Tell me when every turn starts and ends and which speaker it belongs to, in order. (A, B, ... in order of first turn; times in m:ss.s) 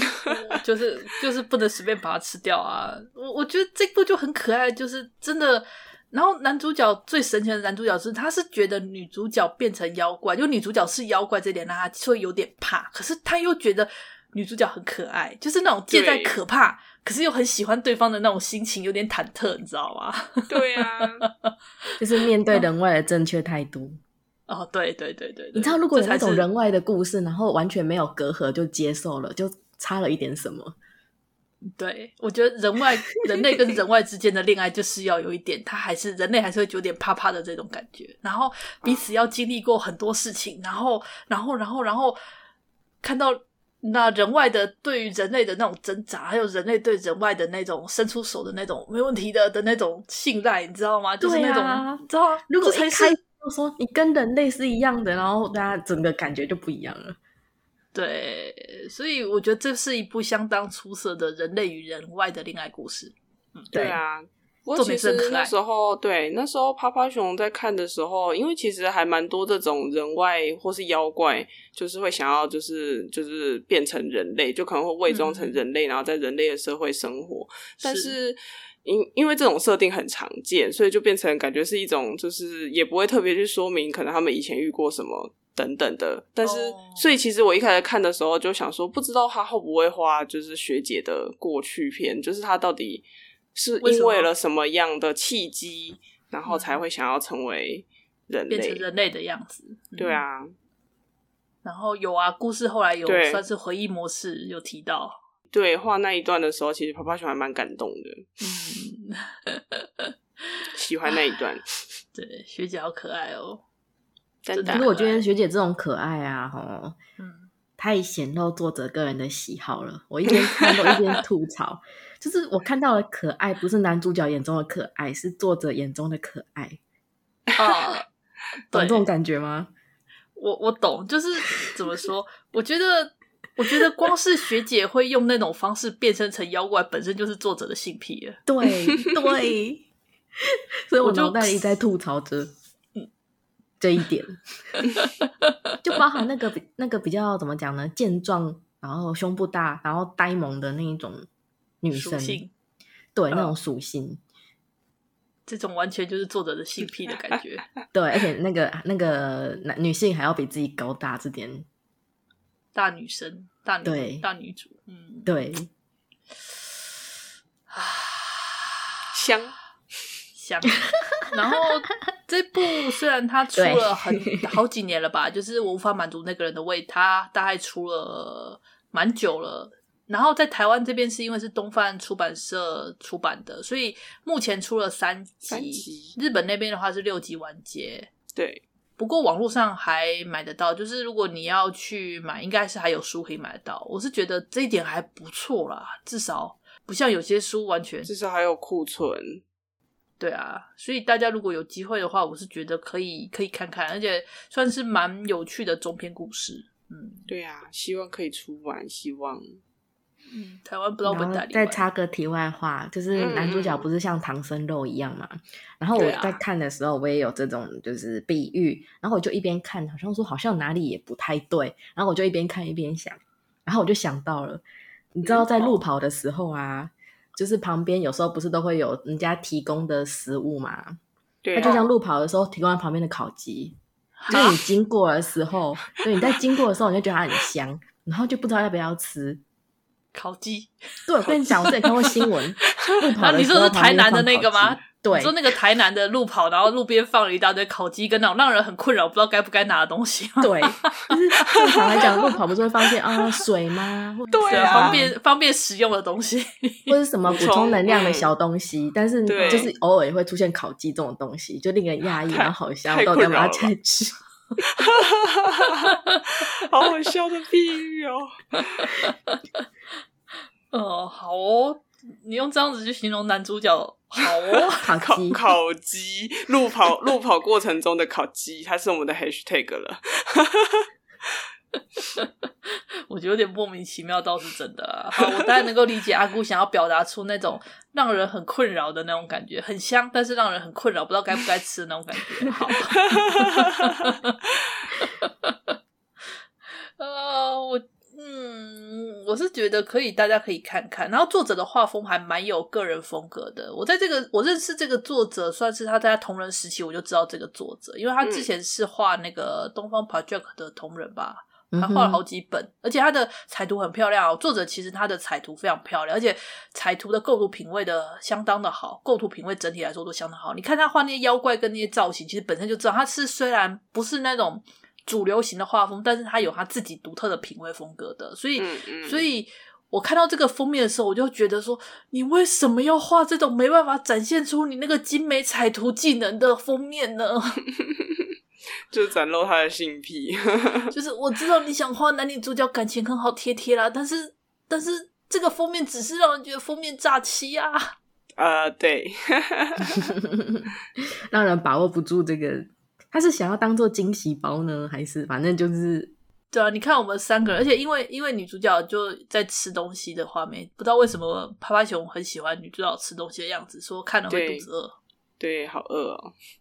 0:00.2-0:20.8 A
0:15.9-0:16.4 B
0:20.5-0:21.2 B
0:22.0-0:24.0 C
0:24.5-0:26.5 A
0:25.5-0:30.7 C
0:31.8-0:42.2 A
0:38.8-0:39.1 B
0:43.0-0:53.2 A
0:51.2-0:57.2 C
0:57.9-1:03.7 A
1:03.7-1:38.8 B
1:03.7-1:04.0 C
1:04.8-1:05.5 A
1:15.1-1:15.6 A
1:17.8-1:18.2 A
1:26.4-1:27.1 A
1:33.8-1:34.3 A
1:36.4-1:36.8 A
1:38.5-1:40.2 A
1:40.0-1:40.5 B
1:41.6-1:45.2 A
1:43.0-1:43.4 B
1:45.5-1:48.2 B
1:48.4-1:50.1 A
1:50.7-1:51.7 B
1:52.1-1:53.6 A
1:54.4-1:54.9 B
1:54.5-1:55.3 A
1:54.7-1:57.0 C
1:57.2-1:57.5 A
1:57.8-2:06.8 C
2:07.6-2:08.1 A
2:08.7-2:09.1 A
2:08.7-2:09.7 C
2:10.4-2:18.4 A
2:18.5-2:19.9 C
2:20.9-2:22.5 C
2:21.0-2:21.7 A
2:23.8-2:24.4 C
2:24.9-2:25.5 A
2:25.8-2:31.2 C
2:31.8-2:32.4 C
2:31.9-2:32.5 A
2:33.1-2:34.2 C
2:33.3-2:33.5 A
2:35.5-2:37.7 A
2:37.9-2:41.6 C
2:42.7-2:45.3 A
2:43.8-2:44.3 C
2:45.2-2:45.7 C
2:47.7-2:48.8 A
2:49.1-2:49.6 B
2:50.3-3:08.1 A
2:53.5-2:54.4 C
3:05.5-3:06.1 B
3:08.3-3:08.6 B
3:09.0-3:18.1 A
3:18.0-3:19.4 B
3:20.2-3:27.3 A
3:27.3-3:29.6 B
3:30.3-3:31.8 A
3:31.0-3:44.6 C
3:33.1-3:33.8 B
3:35.9-3:36.4 A
3:45.1-3:51.0 C
3:45.2-3:45.7 A
3:51.4-3:51.8 B
3:51.5-3:53.8 C
3:51.6-3:51.9 A
3:54.2-3:54.5 A
3:54.3-3:59.4 C
4:00.1-4:00.7 A
4:01.1-4:05.4 C
4:01.2-4:02.1 A
4:03.2-4:12.0 A
4:10.4-4:15.1 C
4:14.3-4:15.1 B
4:14.3-4:16.9 A
4:16.9-4:24.2 C
4:17.2-4:18.3 B
4:19.2-4:19.7 B
4:19.4-4:19.7 A
4:22.3-4:23.7 B
4:24.8-4:28.2 B
4:28.5-4:29.4 A
4:30.7-4:34.9 A
4:34.8-4:35.4 C
4:35.0-4:40.9 B
4:43.1-4:54.4 A
4:53.1-4:53.8 B
4:54.9-4:55.8 A
4:57.0-5:37.6 A
5:08.2-5:08.5 B
5:11.7-5:12.2 C
5:28.6-5:29.3 B
5:37.8-5:38.2 B
5:38.9-5:40.9 B
5:40.9-5:47.8 A
5:48.4-5:50.1 B
5:51.3-5:56.1 C
5:56.5-6:05.0 A
6:04.3-6:04.7 B
6:05.4-6:06.3 B